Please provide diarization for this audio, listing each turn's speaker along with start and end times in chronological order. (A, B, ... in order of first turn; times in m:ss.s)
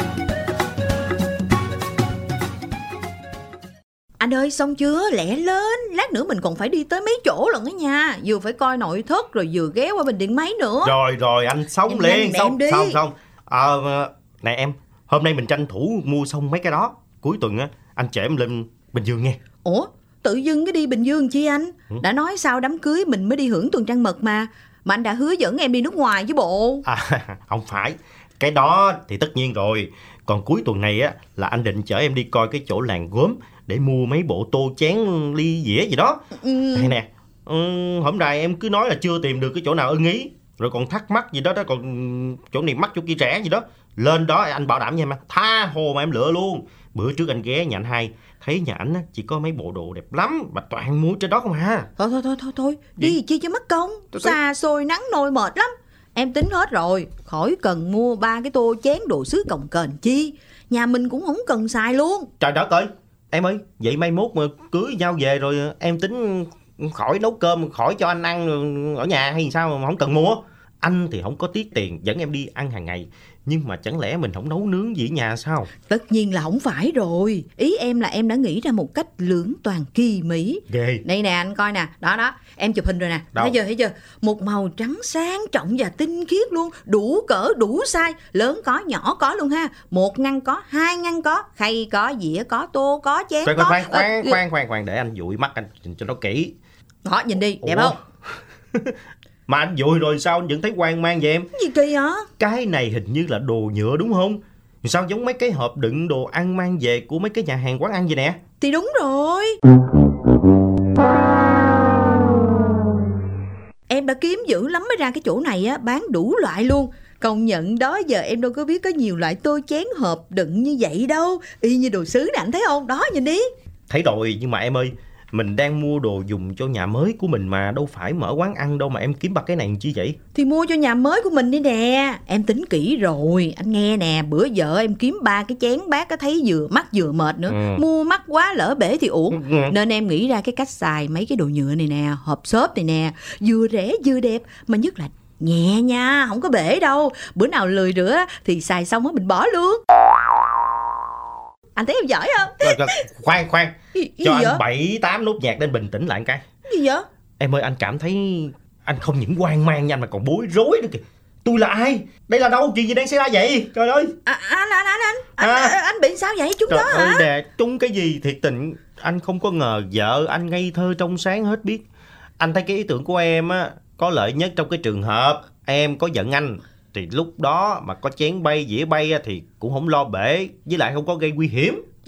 0:04.2-0:11.0 A
0:10.8-0:19.4 B
0:11.9-0:13.0 A
0:19.6-0:26.8 A
0:26.8-0:36.2 B
0:36.4-0:37.0 A
0:36.8-0:51.9 B
0:52.0-1:02.3 A
1:02.4-1:15.7 B
1:15.8-1:34.4 A
1:20.7-1:21.0 B
1:33.4-1:36.5 B
1:37.0-1:37.9 A
1:37.6-1:38.0 B
1:39.5-1:41.5 B
1:41.5-1:42.3 A
1:42.4-1:48.4 B
1:48.6-1:49.6 A
1:53.9-2:03.5 A
2:03.9-2:10.2 B
2:10.3-2:29.8 A
2:17.5-2:17.8 B
2:19.3-2:19.7 B
2:31.8-2:33.0 A
2:32.6-2:36.4 B
2:33.9-2:34.6 A
2:36.6-2:37.0 A
2:37.4-2:44.1 B
2:44.2-2:47.3 A
2:45.4-2:45.7 B
2:46.7-2:51.8 B
2:52.4-3:01.8 B